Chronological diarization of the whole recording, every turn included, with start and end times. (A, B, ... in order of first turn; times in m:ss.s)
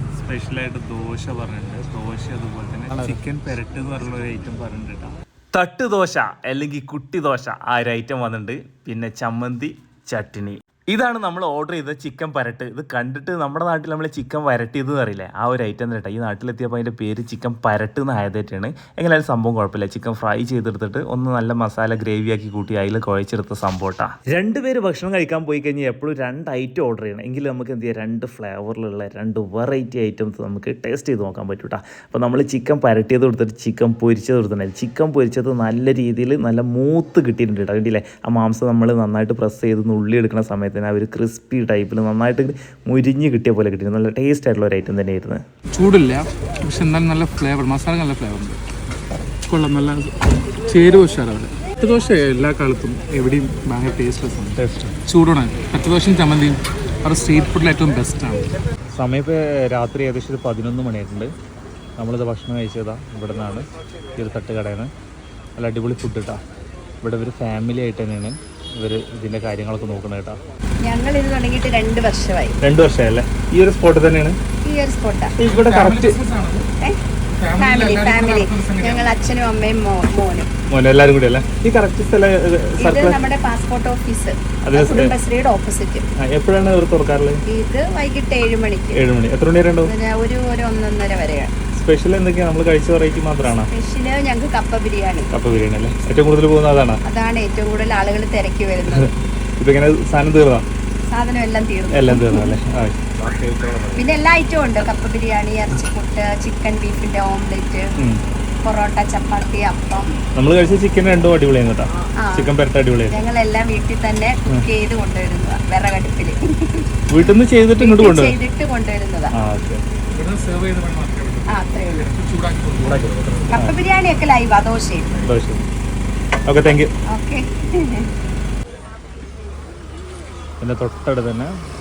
0:00.2-0:45.4 A
0:45.7-0:48.6 B
0:49.5-0:58.5 B
0:54.6-0:55.0 A
0:59.0-1:01.3 A
1:02.0-1:04.9 A
1:05.6-1:06.4 A
1:07.0-1:10.4 A
1:10.8-1:12.6 C
1:12.6-1:14.4 A
1:14.6-1:15.3 C
1:15.4-1:16.2 A
1:15.4-1:16.7 B
1:17.4-1:19.2 B
1:17.6-1:20.5 C
1:20.7-1:23.2 A
1:22.8-1:26.1 C
1:24.6-1:25.2 A
1:26.2-1:27.4 A
1:27.5-1:29.0 C
1:29.0-1:29.9 A
1:29.8-1:31.5 C
1:31.7-1:33.7 A
1:33.5-1:35.3 C
1:35.3-1:37.0 A
1:37.0-1:39.1 C
1:39.6-1:40.7 A
1:41.1-1:42.5 C
1:41.9-1:44.0 A
1:44.0-1:47.9 C
1:48.6-1:50.1 C
1:50.4-1:53.2 A
1:52.2-1:52.5 C
1:53.1-1:56.9 C
1:57.1-1:58.4 A
1:57.8-1:59.3 C
1:59.3-1:59.8 A
2:00.1-2:03.1 B
2:01.5-2:02.1 C
2:02.9-2:03.8 A
2:03.5-2:05.2 C
2:05.2-2:05.6 A
2:06.5-2:06.9 A
2:07.1-2:08.1 C
2:10.6-2:11.5 A